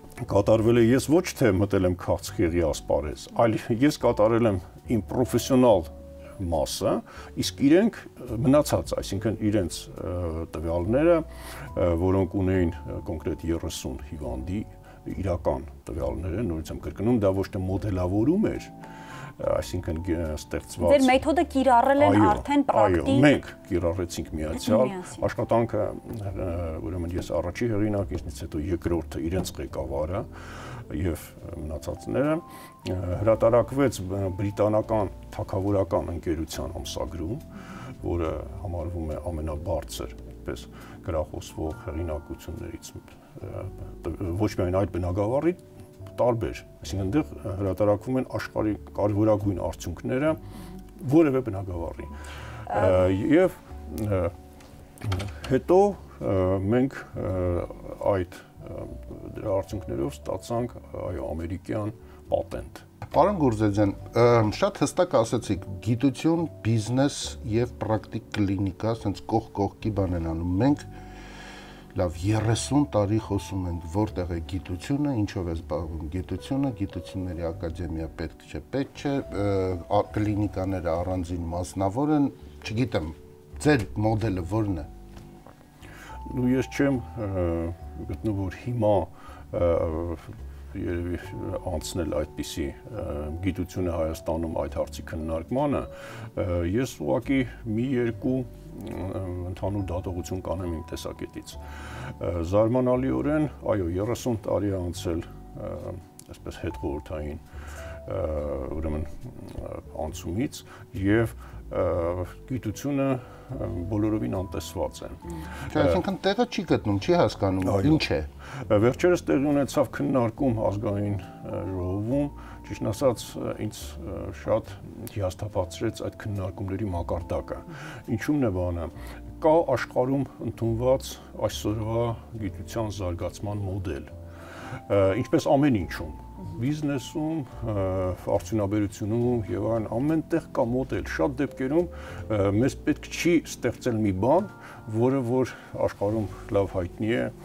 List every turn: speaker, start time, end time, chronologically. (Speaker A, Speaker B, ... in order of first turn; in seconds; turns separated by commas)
Speaker A: 0.2-18.7, Speaker A: 19.4-21.1, Speaker B: 20.8-23.3, Speaker A: 22.0-30.3, Speaker B: 24.5-25.2, Speaker A: 30.9-37.5, Speaker A: 38.0-45.6, Speaker A: 46.1-50.4, Speaker A: 51.0-52.1, Speaker A: 52.7-54.3, Speaker B: 52.7-53.0, Speaker A: 55.0-62.8, Speaker C: 63.1-70.8, Speaker C: 71.9-84.9, Speaker A: 86.2-101.6, Speaker A: 102.2-107.4, Speaker A: 108.0-115.2, Speaker C: 115.7-118.3, Speaker A: 117.6-118.0, Speaker A: 118.7-134.1, Speaker A: 134.9-147.3